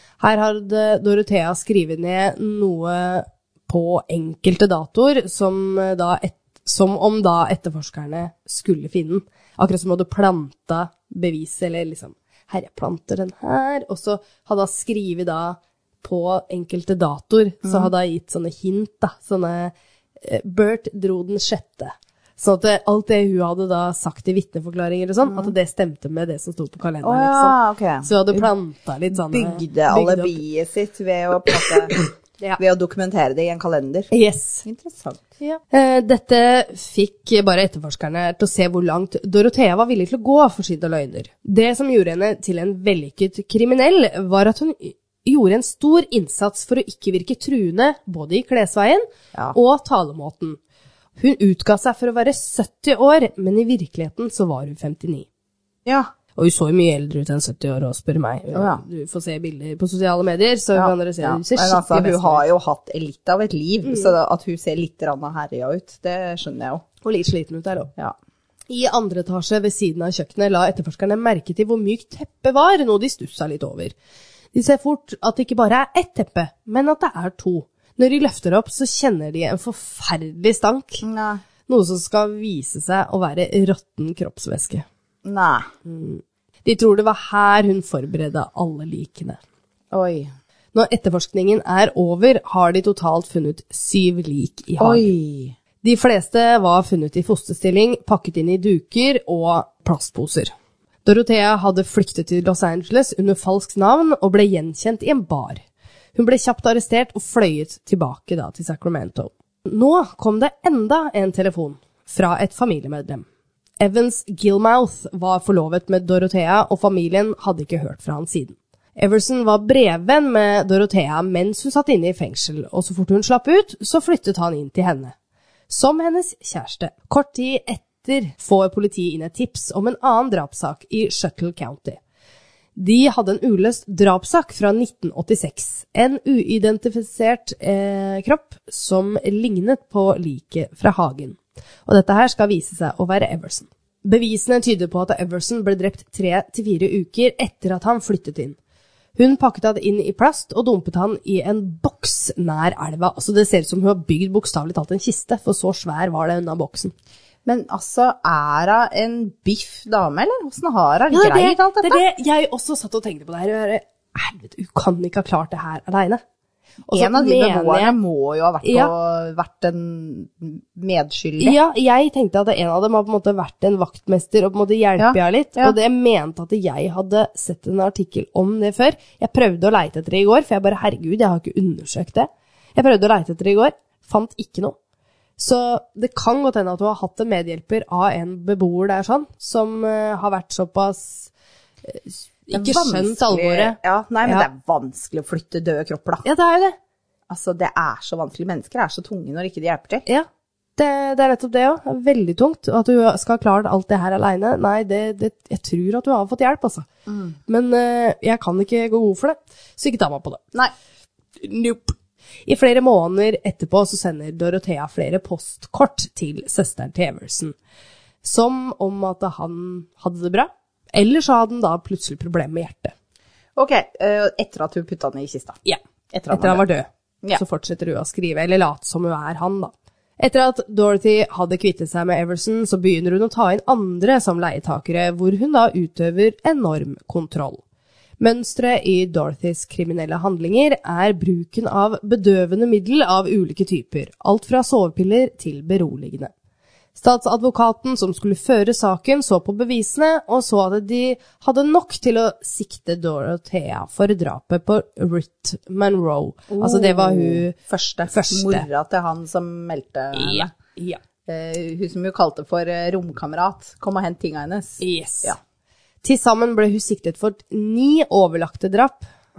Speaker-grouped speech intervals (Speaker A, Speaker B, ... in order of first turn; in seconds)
Speaker A: 0.2-30.4, 32.0-32.6, 34.1-34.6, 35.4-50.6, 51.2-55.3, 56.4-62.5, 63.9-64.1, 67.0-67.9, 68.7-74.0, 74.5-81.0, 81.7-84.9, 85.8-89.4, 90.7-95.1, 95.8-100.5, 101.0-105.6, 106.2-113.3, 113.8-125.2, 125.7-132.0, 132.8-148.6, 149.2-156.9, 161.1-166.2, 166.9-168.0, 168.6-168.9, 171.4-184.8, 185.4-191.3, 191.8-194.5, 196.2-196.8, 200.1-206.9, 207.5-210.4, 211.4-211.9, 212.5-217.6, 218.2-222.9, 225.7-237.6, 238.2-246.3, 247.0-257.6, 258.1-258.7, 260.1-261.0, 264.8-265.4, 266.0-269.1
Speaker B: 17.6-17.9, 25.2-25.5, 27.0-28.5, 29.1-32.0, 32.6-34.1, 34.6-35.3, 55.9-56.1, 58.5-58.8, 60.7-66.8, 81.0-81.4, 85.2-85.7, 89.9-90.3, 94.8-95.6, 157.4-162.0, 166.9-171.6, 175.0-175.8, 192.5-196.2, 197.3-200.1, 207.1-207.4, 223.6-225.6, 226.1-226.6, 256.5-260.5, 261.3-265.4